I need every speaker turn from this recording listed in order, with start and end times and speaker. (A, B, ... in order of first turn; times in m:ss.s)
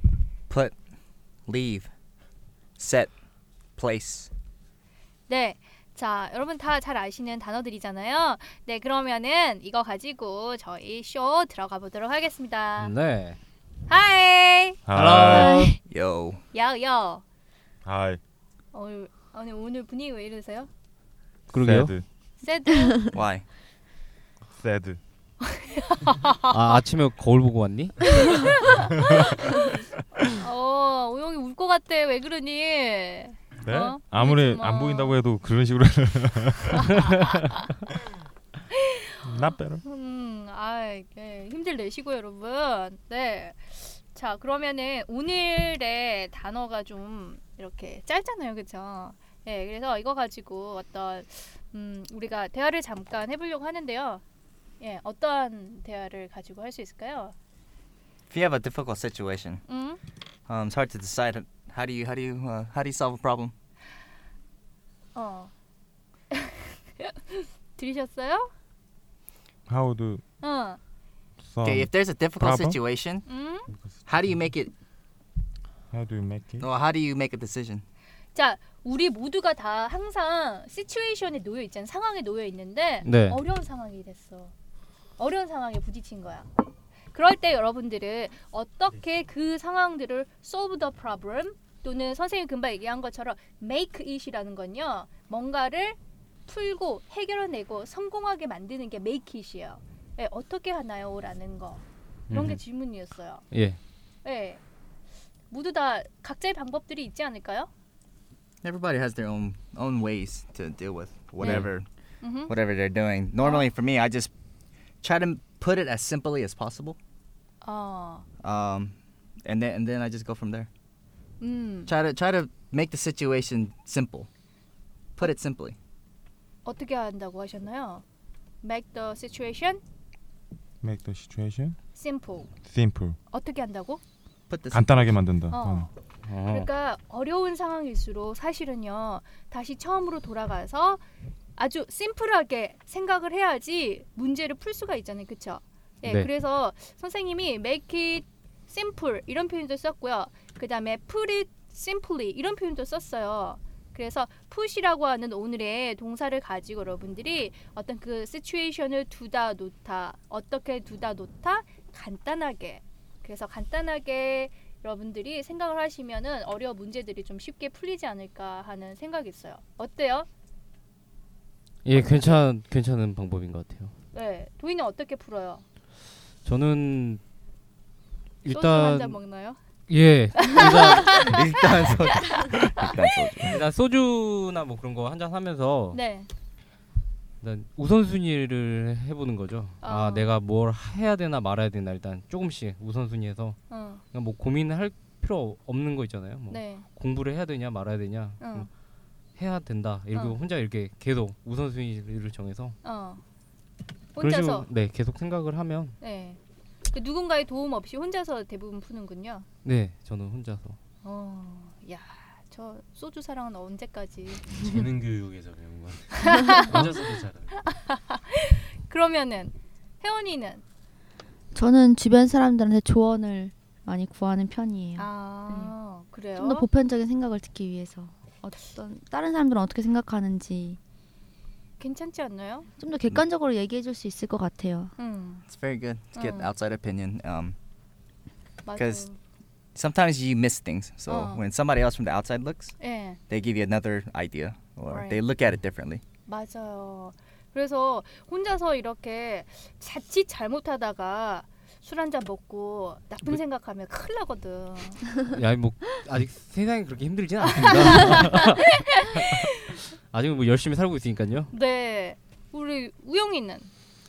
0:00.5-0:00.7 A
0:01.5-0:01.9 A
0:02.8-0:03.1 A
0:03.8-0:04.3 A
0:05.3-0:12.9 B
0:12.8-0:13.4 C
0:13.9-0:14.8 B
0:14.8-0:15.6 D
0:14.9-0:15.8 C
0:15.5-0:15.8 E
0:15.9-0:16.4 A
0:16.5-0:17.2 B
0:17.8-0:18.2 D
0:18.7-0:20.7 B
0:21.5-0:21.9 C
0:21.5-0:22.0 D
0:22.4-0:23.0 B
0:23.1-0:23.4 A
0:24.6-0:25.0 D
0:25.4-0:26.6 B
0:26.5-0:28.5 C
0:28.2-0:29.7 B
0:30.3-0:35.2 B
0:33.6-0:37.0 D
0:36.8-0:37.6 B
0:38.7-0:54.2 B
0:39.2-0:39.8 D
0:54.8-0:57.3 B
0:58.3-0:59.6 A
0:59.7-1:00.0 B
1:00.5-1:03.5 A
1:05.1-1:05.5 B
1:06.3-1:08.5 B
1:09.7-1:10.2 D
1:10.4-1:10.8 B
1:11.4-1:12.8 D
1:11.6-1:13.3 A
1:13.3-1:13.7 B
1:14.0-1:14.7 A
1:15.9-1:16.7 D
1:16.6-1:17.8 A
1:18.3-1:24.5 B
1:23.0-1:23.4 C
1:25.2-1:26.5 B
1:27.1-1:43.4 B
1:42.3-1:42.6 C
1:43.5-1:43.8 C
1:44.2-1:44.6 B
1:45.5-1:47.7 B
1:48.6-1:51.9 A
1:51.4-1:51.7 B
1:51.4-1:51.7 C
1:52.2-1:52.5 B
1:52.5-1:54.3 A
1:53.4-1:53.7 B
1:55.0-1:57.0 A
1:57.6-1:58.2 B
1:58.4-2:00.7 A
2:01.4-2:01.9 B
2:01.8-2:04.3 A
2:05.2-2:05.8 A
2:06.6-2:08.0 B
2:08.6-2:09.8 B
2:10.8-2:11.8 D
2:11.9-2:12.5 B
2:12.6-2:13.2 D
2:13.3-2:14.0 B
2:14.5-2:15.2 A
2:14.7-2:15.9 D
2:15.5-2:15.9 B
2:16.2-2:16.7 C
2:16.4-2:21.0 B
2:21.6-2:50.3 B
2:51.8-2:53.9 C
2:54.1-2:55.6 B
2:56.4-2:57.2 C
2:58.4-2:59.2 C
2:58.5-2:59.6 B
2:59.9-3:02.2 C
3:00.4-3:01.2 B
3:01.0-3:03.6 A
3:03.5-3:06.0 C
3:05.9-3:06.3 B
3:07.4-3:13.6 C
3:09.8-3:10.3 B
3:13.7-3:14.0 B
3:14.1-3:18.7 C
3:16.5-3:16.8 B
3:18.4-3:18.7 B
3:19.4-3:22.8 C
3:22.8-3:23.2 B
3:24.1-3:24.7 B
3:24.2-3:26.0 C
3:26.0-3:26.4 B
3:26.9-3:29.4 B
3:29.6-3:30.8 C
3:31.0-3:34.6 B
3:34.5-3:37.6 F
3:36.2-3:36.8 B
3:37.5-3:40.6 B
3:41.5-3:45.7 E
3:44.9-3:46.7 B
3:46.3-3:50.8 E
3:51.8-3:52.7 B
3:52.8-3:54.9 E
3:55.0-3:55.4 B
3:55.5-3:57.6 A
3:56.1-3:56.5 B
3:58.6-3:59.2 B
3:58.8-3:59.1 A
3:59.7-4:02.8 A
4:01.1-4:01.4 B
4:02.8-4:03.2 B
4:03.3-4:06.0 A
4:04.9-4:05.2 B
4:06.3-4:15.1 B
4:15.2-4:19.3 C
4:17.6-4:19.8 B
4:20.1-4:21.5 C
4:21.5-4:23.7 B